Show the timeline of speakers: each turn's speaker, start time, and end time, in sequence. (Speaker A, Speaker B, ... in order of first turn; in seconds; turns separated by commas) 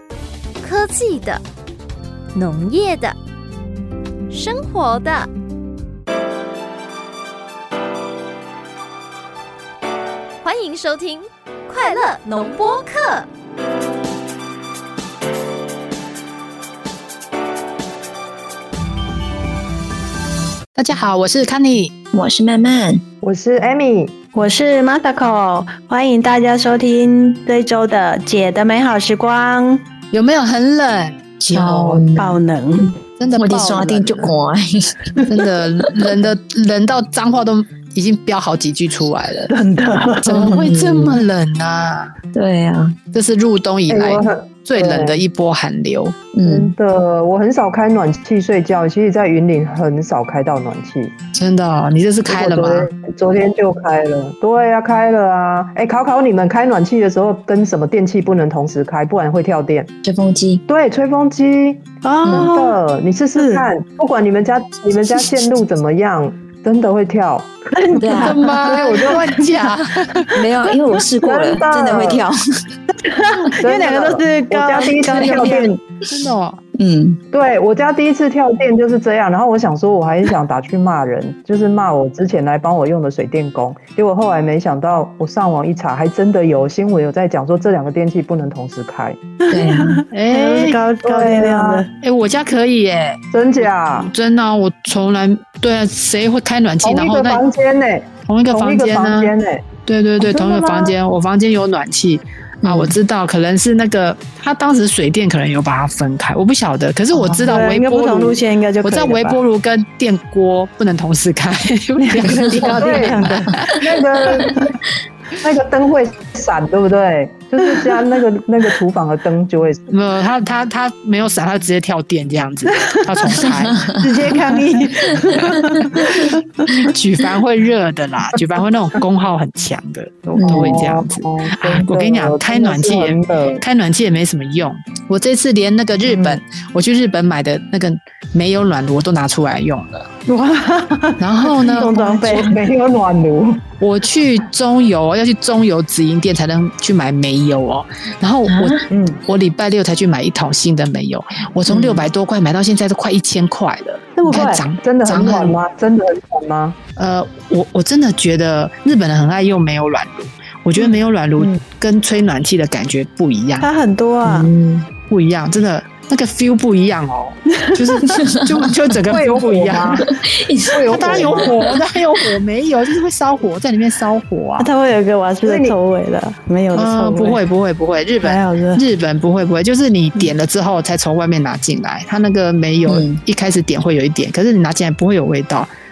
Speaker A: 0.6-1.4, Speaker A: 2.3-3.1, Speaker A: 4.3-5.3, Speaker A: 10.4-13.3, Speaker B: 20.8-21.9, Speaker C: 22.1-23.0, Speaker D: 23.2-24.2, Speaker E: 24.3-29.9, Speaker B: 30.1-32.0, Speaker C: 31.5-32.4, Speaker E: 32.2-33.0, Speaker B: 33.2-34.3, Speaker C: 33.4-35.0, Speaker B: 35.3-39.5, Speaker E: 39.5-40.6, Speaker B: 40.2-42.1, Speaker C: 40.3-41.2, Speaker C: 42.3-43.0, Speaker B: 43.1-46.2, Speaker D: 43.9-45.2, Speaker C: 46.3-46.7, Speaker D: 46.5-51.1, Speaker B: 51.3-52.9, Speaker D: 52.3-59.9, Speaker C: 60.0-60.6, Speaker D: 60.7-69.5, Speaker E: 62.0-62.8, Speaker C: 62.2-62.5, Speaker E: 63.4-63.7, Speaker E: 67.8-69.5, Speaker C: 68.0-68.5, Speaker B: 68.2-70.3, Speaker C: 70.3-72.6, Speaker D: 71.2-72.2, Speaker E: 73.0-75.7, Speaker B: 73.2-73.5, Speaker D: 73.5-75.8, Speaker B: 75.2-76.6, Speaker C: 76.8-77.2, Speaker D: 77.3-89.2, Speaker E: 89.5-91.9, Speaker C: 89.5-90.0, Speaker B: 90.1-90.8, Speaker D: 91.0-91.8, Speaker B: 92.0-97.4, Speaker D: 93.3-94.1, Speaker D: 96.8-99.7, Speaker B: 98.3-99.3, Speaker B: 99.9-113.8, Speaker E: 100.2-100.9, Speaker C: 102.6-103.0, Speaker C: 107.1-107.5, Speaker E: 107.5-109.4, Speaker E: 112.0-113.7, Speaker D: 112.6-114.8, Speaker D: 115.4-119.8, Speaker B: 119.9-123.9, Speaker E: 122.8-126.9, Speaker B: 126.7-140.1, Speaker D: 130.3-133.6, Speaker C: 130.4-130.9, Speaker D: 136.1-136.4, Speaker E: 140.3-142.6, Speaker B: 141.2-142.5, Speaker D: 141.8-143.7, Speaker B: 143.8-155.6, Speaker C: 148.5-148.9, Speaker D: 148.9-149.2, Speaker C: 151.7-152.1, Speaker D: 154.2-156.8, Speaker B: 157.0-163.7, Speaker E: 163.6-164.5, Speaker C: 164.2-164.9, Speaker B: 165.1-170.2, Speaker E: 167.6-168.2, Speaker C: 168.1-168.7, Speaker D: 169.0-170.1, Speaker C: 170.0-171.6, Speaker D: 170.7-171.6, Speaker B: 170.9-174.7, Speaker E: 174.6-177.4, Speaker D: 175.4-175.8, Speaker B: 176.7-185.7, Speaker E: 178.2-178.8, Speaker C: 182.9-183.2